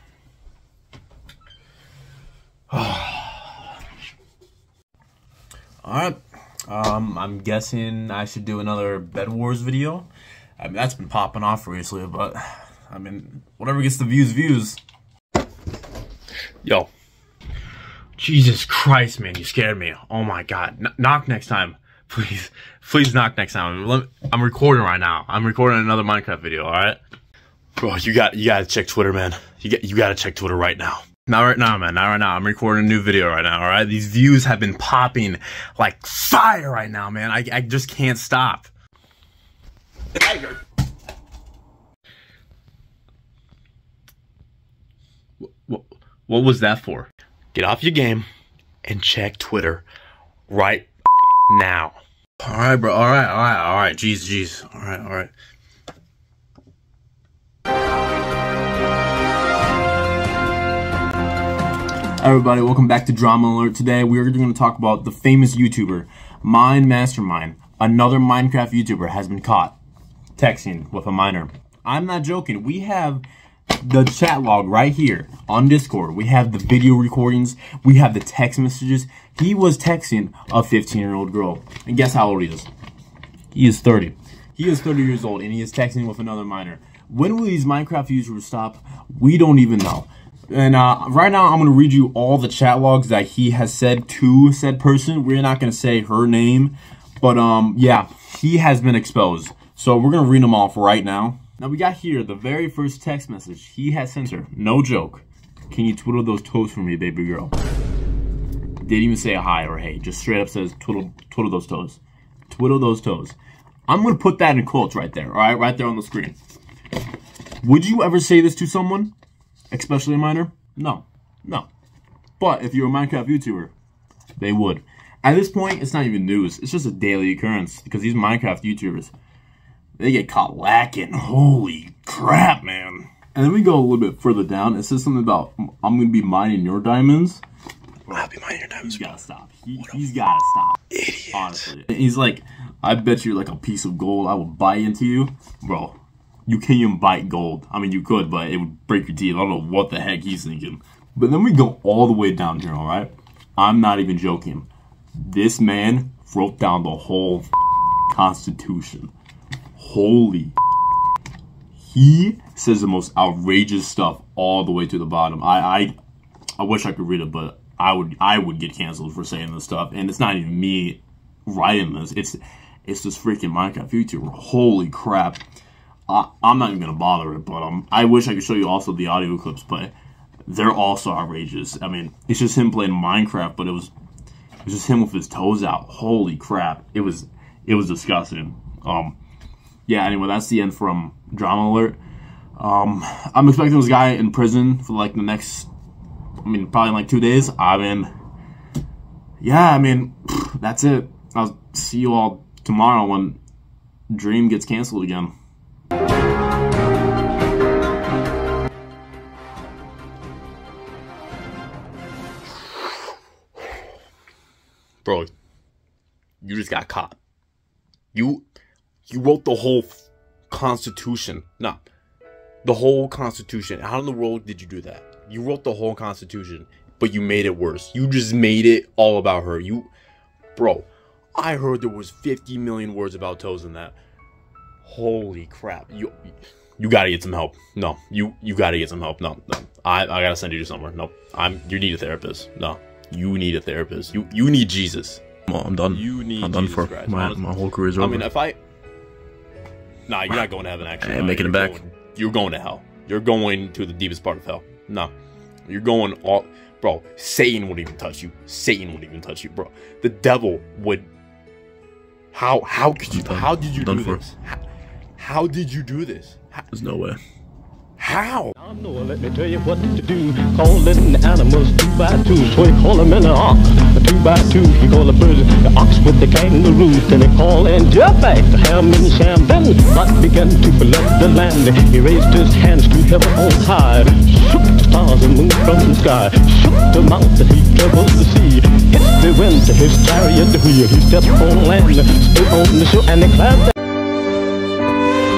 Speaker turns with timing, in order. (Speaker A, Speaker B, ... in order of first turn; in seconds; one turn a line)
Speaker A: 2.7-3.6
Speaker A: 5.8-10.1
Speaker A: 10.6-14.8
Speaker A: 16.6-16.9
Speaker A: 18.2-27.0
Speaker A: 27.8-38.7
Speaker A: 40.2-40.6
Speaker A: 45.4-48.3
Speaker A: 48.9-49.9
Speaker A: 50.5-50.9
Speaker A: 51.5-55.3
Speaker A: 62.2-69.8
Speaker A: 70.4-73.2
Speaker A: 73.8-82.7
Speaker A: 83.5-107.5
Speaker A: 108.8-113.4
Speaker A: 113.9-116.4
Speaker A: 117.6-119.1
Speaker A: 119.7-121.7
Speaker A: 122.4-123.7
Speaker A: 124.4-129.1
Speaker A: 130.0-137.4
Speaker A: 138.1-157.5
Speaker B: 138.1-139.2
Speaker B: 141.0-141.7
Speaker A: 158.1-159.1
Speaker A: 159.8-160.6
Speaker A: 161.9-165.9
Speaker A: 166.6-175.4
Speaker A: 176.1-179.9
Speaker A: 180.5-183.9
Speaker A: 184.6-189.2
Speaker A: 189.9-192.0
Speaker A: 192.6-195.7
Speaker A: 196.4-198.1
Speaker A: 199.4-203.4
Speaker A: 204.1-205.3
Speaker A: 215.1-215.3
Speaker A: 216.4-217.2
Speaker A: 218.1-218.4
Speaker A: 219.1-221.8
Speaker A: 222.6-229.9
Speaker A: 230.6-234.0
Speaker A: 234.8-236.1
Speaker A: 236.8-245.2
Speaker B: 245.5-248.3
Speaker A: 245.9-247.4
Speaker A: 248.0-248.6
Speaker A: 250.1-255.1
Speaker B: 251.0-251.8
Speaker A: 255.7-261.1
Speaker A: 262.3-264.6
Speaker B: 263.1-264.2
Speaker A: 265.2-266.7
Speaker B: 266.7-267.2
Speaker A: 268.0-268.6
Speaker C: 268.6-293.7